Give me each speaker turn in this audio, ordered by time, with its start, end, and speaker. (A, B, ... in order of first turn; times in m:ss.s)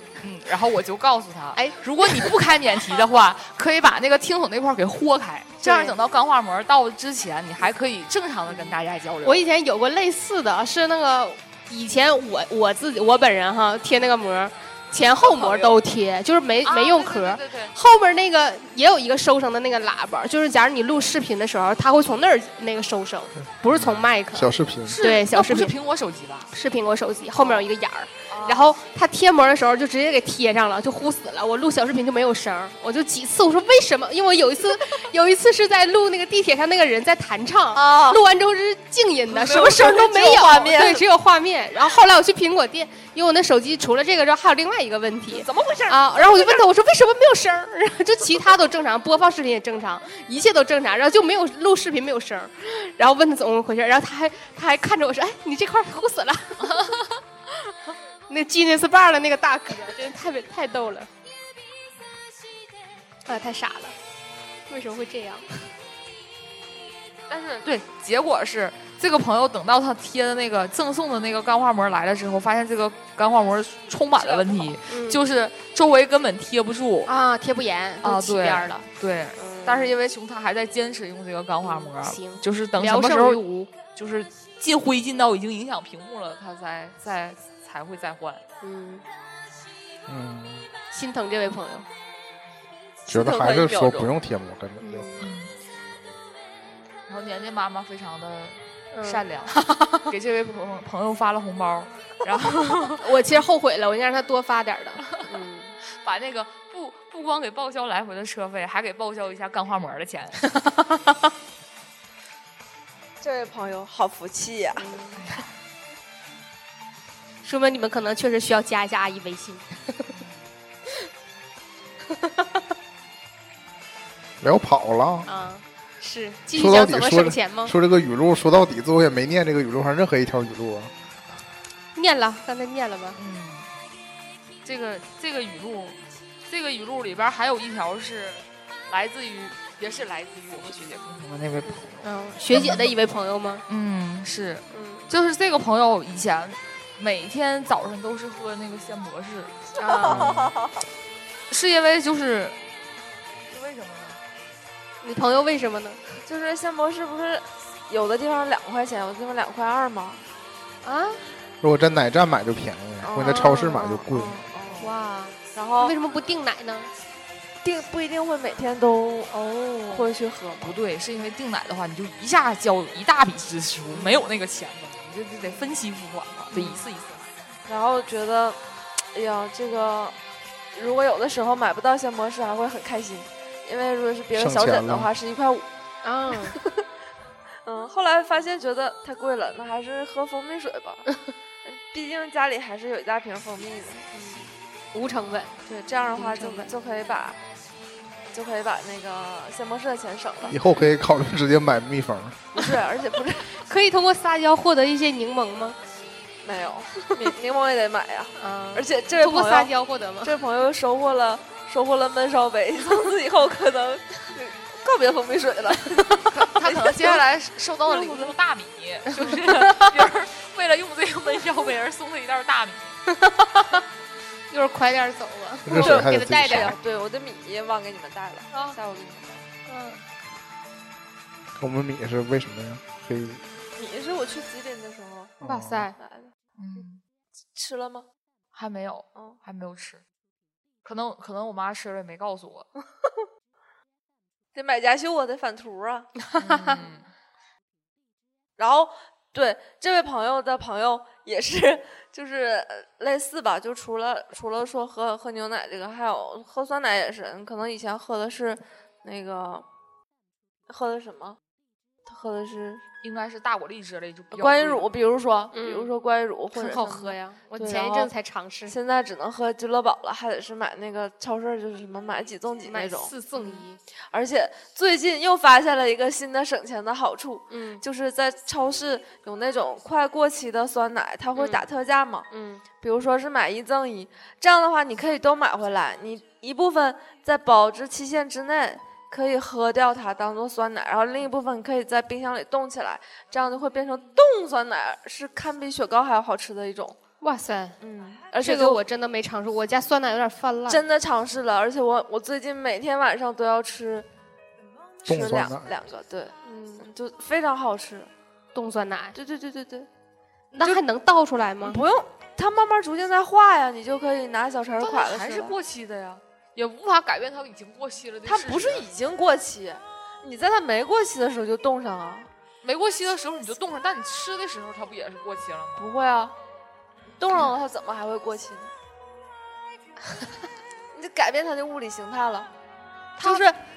0:00.2-0:09.4 A
0:01.6-0:02.3 B
0:05.6-0:06.0 B
0:08.5-0:25.7 B
0:15.2-0:15.8 A
0:16.6-0:17.7 A
0:23.7-0:25.0 C
0:24.9-0:26.5 A
0:26.5-0:56.9 B
0:28.3-0:28.8 A
0:37.8-0:38.2 D
0:39.3-0:41.0 D
0:45.4-0:46.6 D
0:56.7-0:57.0 A
0:58.3-1:01.1 B
1:03.3-1:04.0 B
1:04.7-1:05.5 B
1:07.3-1:17.1 A
1:14.2-1:14.7 D
1:14.9-1:15.2 B
1:17.1-1:18.8 B
1:18.0-1:28.4 A
1:19.4-1:19.9 B
1:21.6-1:23.7 B
1:28.6-1:29.0 B
1:30.1-1:30.7 C
1:30.9-1:31.9 B
1:33.1-1:34.1 D
1:33.1-1:35.1 C
1:34.8-1:35.3 B
1:35.2-1:35.5 A
1:37.1-1:43.0 A
1:38.9-1:40.1 B
1:42.8-1:45.7 B
1:46.0-1:50.4 A
1:50.6-1:51.1 B
1:53.2-1:54.9 D
1:54.8-1:55.4 B
1:55.2-1:55.5 A
1:57.4-2:00.2 B
2:02.1-2:02.6 B
2:04.4-2:05.3 C
2:05.3-2:07.7 B
2:06.6-2:10.9 C
2:12.0-2:13.2 B
2:13.2-2:13.7 A
2:14.6-2:22.9 A
2:21.7-2:23.6 B
2:23.7-2:29.6 A
2:24.7-2:25.1 B
2:29.8-2:30.4 B
2:29.9-2:30.8 D
2:31.5-2:32.6 A
2:33.5-2:34.2 A
2:35.0-2:36.0 B
2:36.2-2:40.2 D
2:40.8-2:41.2 B
2:41.6-2:44.4 C
2:43.0-2:44.9 D
2:43.2-2:43.8 B
2:44.8-2:46.9 B
2:45.5-2:46.0 D
2:47.6-2:49.3 D
2:49.3-2:50.1 B
2:49.9-2:50.8 D
2:50.6-2:57.3 A
2:56.5-2:56.9 B
2:57.7-2:58.6 D
2:59.1-3:00.2 D
3:00.7-3:05.7 D
3:04.3-3:05.1 C
3:06.0-3:06.6 B
3:06.4-3:06.8 D
3:07.6-3:11.0 D
3:11.6-3:14.1 D
3:14.1-3:15.6 B
3:15.7-3:17.4 D
3:16.1-3:16.7 B
3:18.3-3:20.6 D
3:20.5-3:22.5 C
3:22.6-3:23.6 D
3:23.5-3:25.8 B
3:26.4-3:29.7 D
3:28.4-3:30.4 B
3:30.2-3:37.2 D
3:36.2-3:43.0 A
3:37.9-3:38.4 D
3:39.2-3:39.9 B
3:43.1-3:43.8 B
3:44.5-3:46.2 B
3:45.6-3:46.8 C
3:45.7-3:49.5 D
3:48.5-3:48.8 B
3:49.7-3:50.0 B
3:51.6-3:53.4 C
3:53.8-3:55.4 D
3:55.4-3:55.9 C
3:55.4-3:56.0 B
3:56.0-3:56.8 D
3:56.6-3:57.0 A
3:57.6-3:58.1 D
3:58.5-4:00.0 A
4:00.8-4:02.7 A
4:04.5-4:06.1 D
4:06.3-4:06.8 B
4:06.4-4:07.1 A
4:08.6-4:19.6 D
4:20.7-4:21.4 D
4:22.1-4:22.8 D
4:23.0-4:24.9 A
4:24.3-4:28.1 D
4:25.5-4:25.9 B
4:26.5-4:28.7 B
4:28.7-4:42.3 D
4:32.6-4:33.8 B
4:37.5-4:37.8 B
4:41.4-4:41.6 B
4:42.3-4:42.6 B
4:42.8-4:57.0 D
4:57.2-4:57.8 B
4:57.8-4:58.8 D
4:58.4-5:00.8 B
5:00.7-5:04.1 D
5:05.0-5:08.1 D
5:05.0-5:05.7 C
5:08.6-5:09.2 B
5:09.2-5:09.9 D
5:10.5-5:11.8 B
5:11.6-5:15.6 D
5:14.8-5:18.9 A
5:18.2-5:22.3 D
5:22.6-5:25.8 A
5:25.8-5:26.4 D
5:27.2-5:28.7 D
5:30.9-5:32.5 D
5:33.2-5:33.5 A
5:33.2-5:33.5 D